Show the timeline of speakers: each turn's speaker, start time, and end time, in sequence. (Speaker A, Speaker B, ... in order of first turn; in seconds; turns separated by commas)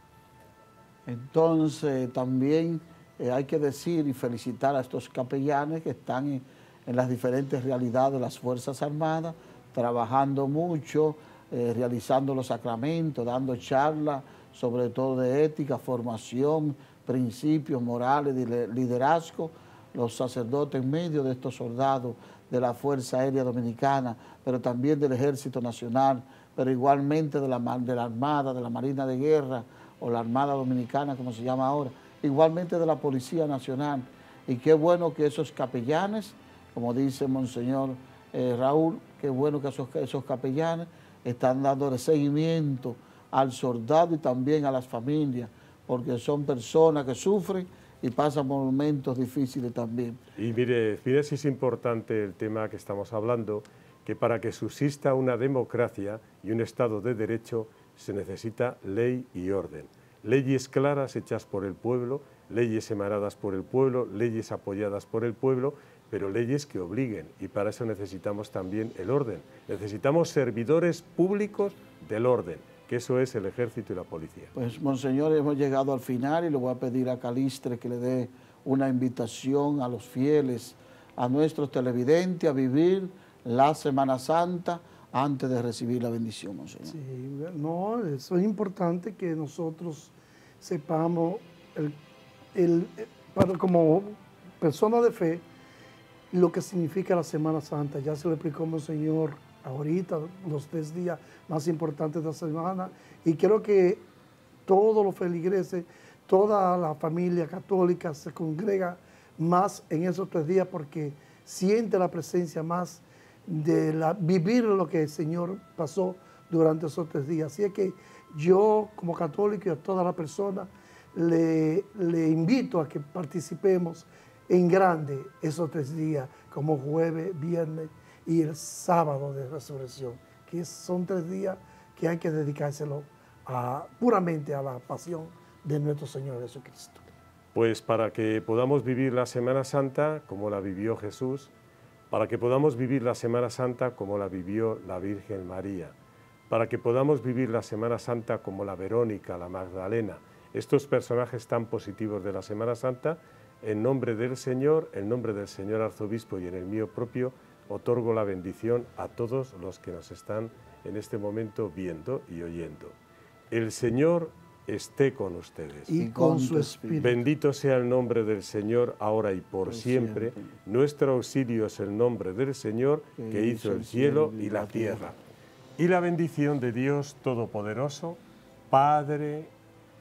Speaker A: 1.1-50.2, Speaker B: 50.4-74.5, Speaker A: 74.5-87.0, Speaker C: 86.9-92.0, Speaker C: 92.5-95.5, Speaker C: 96.3-104.0, Speaker C: 104.7-137.0, Speaker B: 137.5-141.5, Speaker B: 142.1-145.9, Speaker B: 146.5-163.0, Speaker B: 163.5-165.9, Speaker C: 165.9-167.2, Speaker A: 166.0-167.1, Speaker B: 167.0-175.2, Speaker A: 169.7-170.5, Speaker A: 173.2-175.1, Speaker B: 175.8-179.5